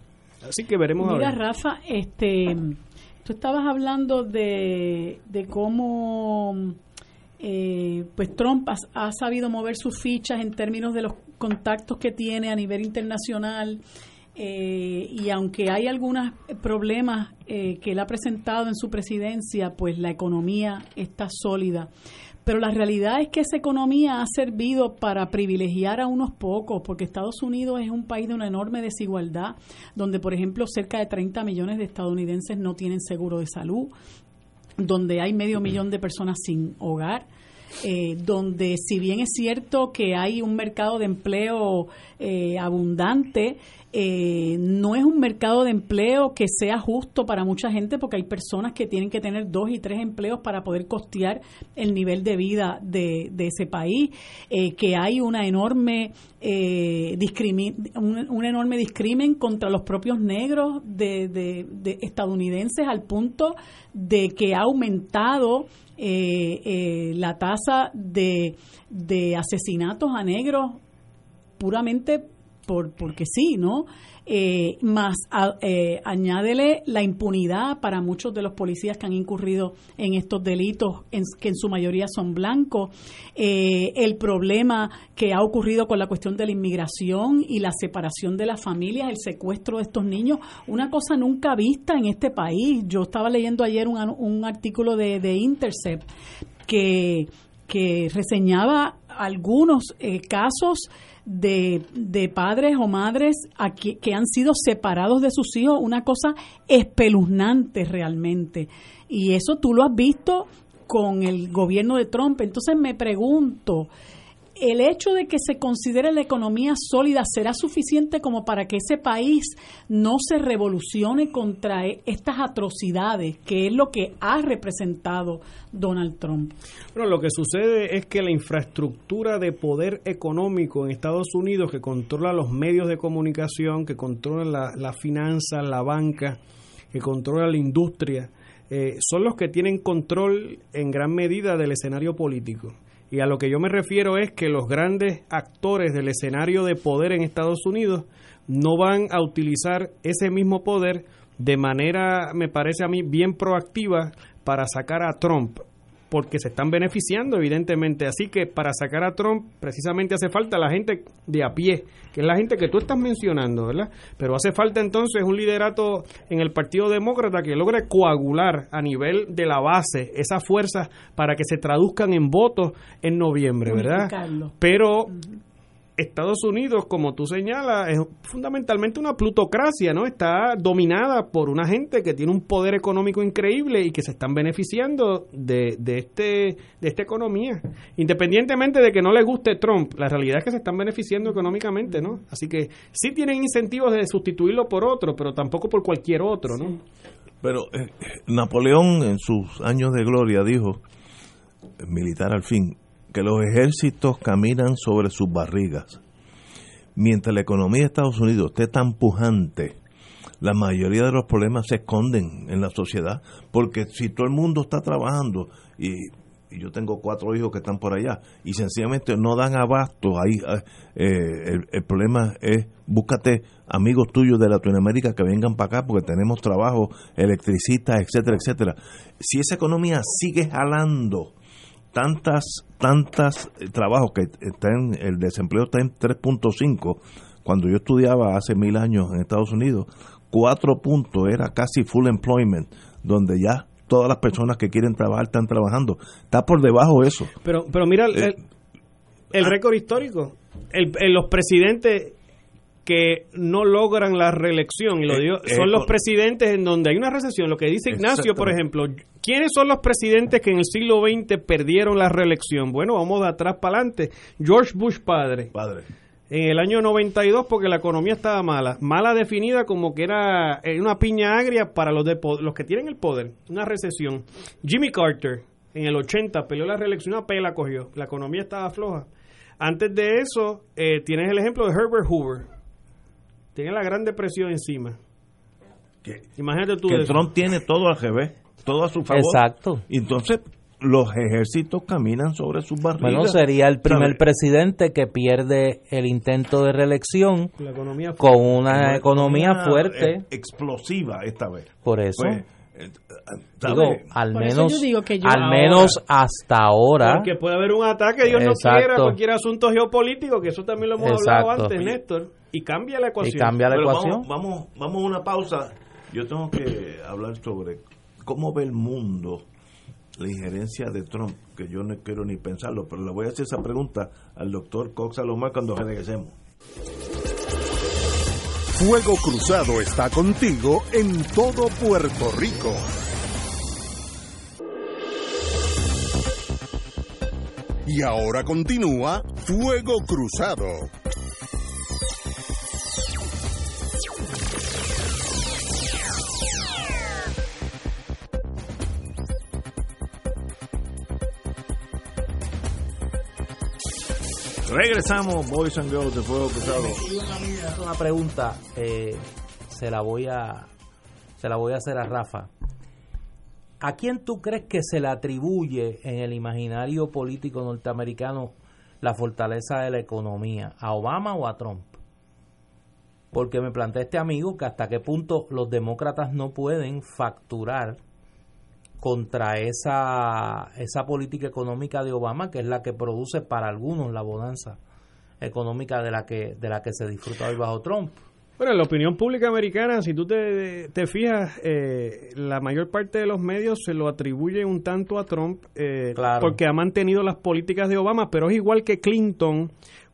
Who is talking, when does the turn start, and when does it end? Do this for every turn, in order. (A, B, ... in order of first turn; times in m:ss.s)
0:00.4-0:01.4 A
0:01.0-0:06.8 B
0:07.4-0:13.8 B
0:14.4-0:21.9 B
0:22.4-0:33.9 B
0:34.8-0:37.2 B
0:37.8-1:10.8 B
1:11.6-1:36.1 B
1:36.7-1:53.9 B
1:54.6-2:06.5 B
2:06.9-2:16.4 A
2:16.9-2:55.2 A
2:53.7-2:54.5 B
2:56.0-3:16.8 A
3:17.4-3:20.8 C
3:21.8-3:26.0 C
3:27.0-3:29.8 C
3:30.4-3:51.3 C
3:51.9-4:07.3 C
4:07.4-4:08.4 A
4:09.3-4:12.2 A
4:12.8-4:25.5 A
4:15.1-4:15.9 C
4:17.9-4:18.5 C
4:25.5-4:25.9 C
4:26.3-4:39.1 A
4:39.6-4:42.5 A
4:43.5-4:45.0 A
4:46.4-4:47.2 A
4:46.8-4:54.2 C
4:49.1-4:49.8 D
4:53.0-4:57.5 D
4:57.6-4:58.5 A
4:58.2-5:00.2 D
4:58.7-5:04.0 C
5:01.8-5:02.4 D
5:03.6-5:07.3 D
5:04.3-5:05.6 B
5:05.3-5:06.0 A
5:07.0-5:13.6 A
5:08.2-5:09.2 D
5:11.0-5:11.8 D
5:13.2-5:14.3 D
5:13.7-5:19.4 C
5:20.2-5:26.3 C
5:28.7-5:32.9 E
5:37.8-5:40.9 E
5:54.7-5:57.1 C
5:57.1-6:00.7 D
6:01.4-6:02.5 D
6:03.8-6:12.0 D
6:13.3-6:18.0 D
6:19.0-6:24.8 D
6:25.4-6:28.2 D
6:28.6-6:39.7 A
6:36.1-6:36.6 D